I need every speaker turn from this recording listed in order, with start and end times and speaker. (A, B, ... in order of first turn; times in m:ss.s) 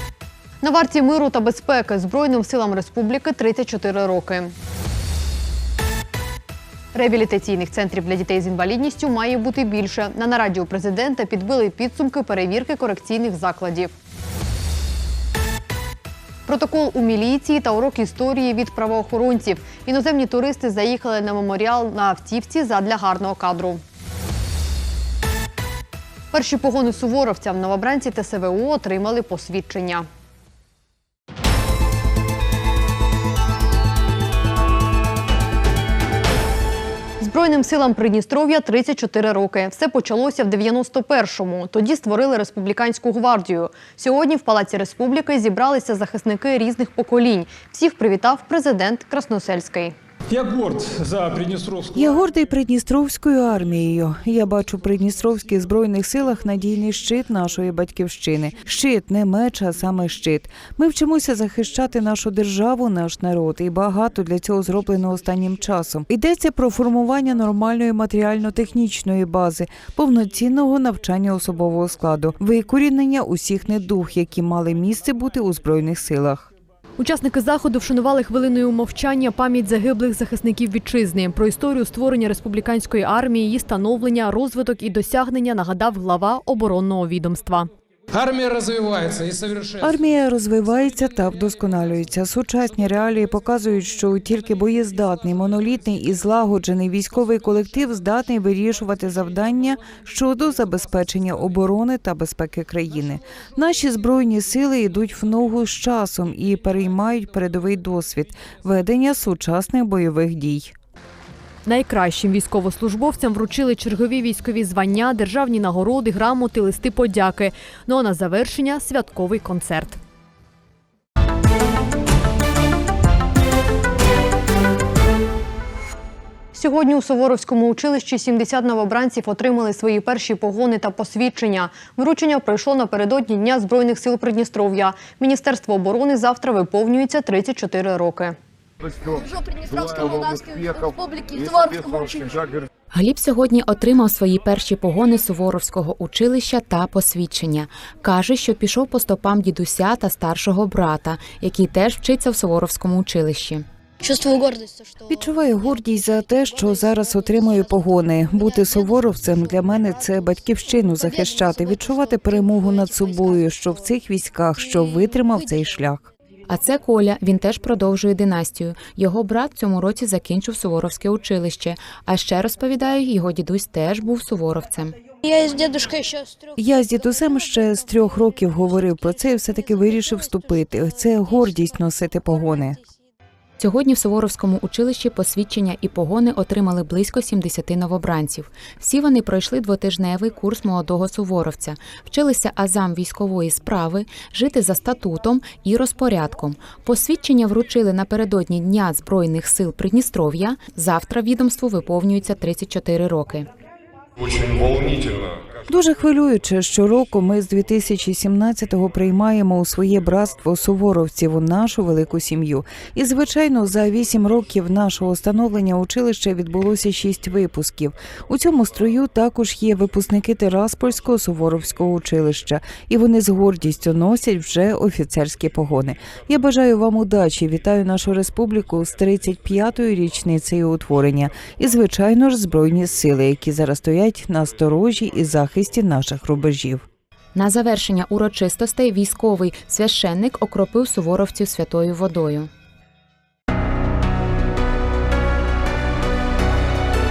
0:00.6-0:04.5 A
0:06.9-0:13.9 A
0:16.5-0:23.8 A
0:26.3-0:30.1 A
0:37.2-0:49.9 A
0:50.3-0:52.1 B
0:51.9-1:16.5 C
1:17.0-1:27.7 A
1:28.1-1:30.0 B
1:29.8-1:50.8 C
1:51.7-2:00.0 A
2:06.6-2:18.4 A
2:19.1-2:22.4 D
2:22.9-2:33.6 E
2:34.0-2:34.9 D
2:35.1-2:46.1 C
2:46.5-2:55.0 E
2:55.2-2:56.4 D
2:56.6-3:02.8 C
3:03.6-3:23.5 E
3:25.7-3:56.9 C
3:57.4-4:02.5 E